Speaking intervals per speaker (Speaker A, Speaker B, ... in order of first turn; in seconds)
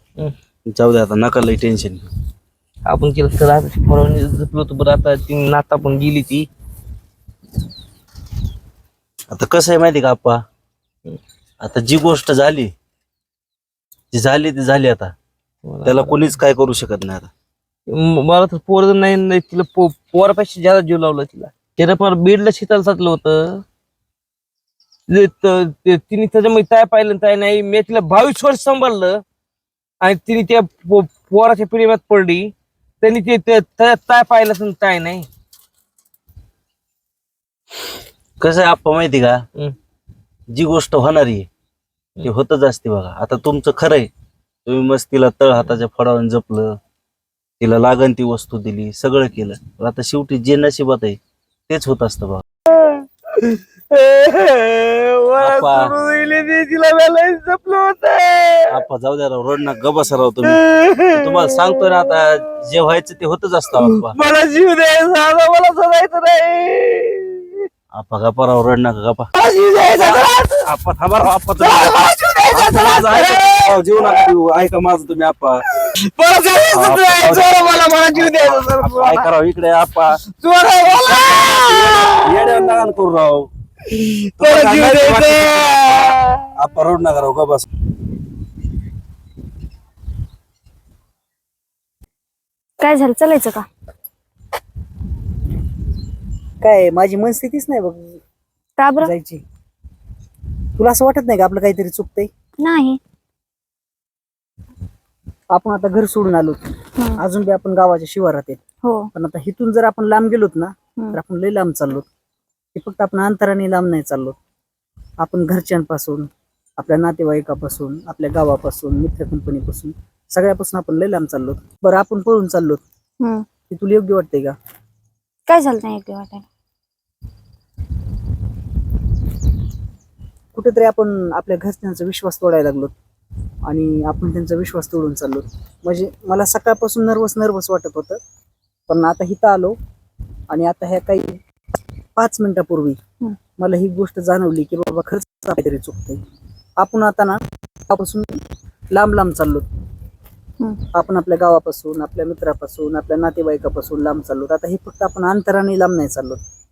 Speaker A: 0.7-2.1, 9.3-10.4, 11.6-12.7, 14.1-15.1, 15.8-17.3, 38.4-39.4, 40.5-41.5, 42.2-44.1, 44.6-46.8, 47.6-52.4, 55.4-55.9, 58.7-64.2, 67.9-69.3, 69.9-75.6, 76.7-77.5, 78.1-80.2, 80.9-83.5, 84.4-85.8, 86.5-87.7
Speaker B: 2.9-6.5, 15.7-16.2, 17.9-23.6, 25.1-29.2, 30.0-35.3, 52.8-58.8, 60.5-61.5, 63.8-67.7, 69.3-70.7, 71.6-74.2, 75.8-79.3, 80.2-82.8, 83.9-86.5
Speaker C: 92.8-93.7, 98.8-99.1, 102.6-103.0, 108.8-109.1, 123.2-123.5, 125.5-126.5
Speaker D: 96.6-98.2, 99.0-99.4, 100.8-102.3, 105.5-108.6, 109.1-112.0, 112.7-114.3, 115.2-116.3, 116.8-122.8, 123.7-124.5, 130.5-132.9, 133.7-138.2, 138.9-139.8, 140.5-143.0, 143.6-146.2, 146.8-149.6, 150.9-156.4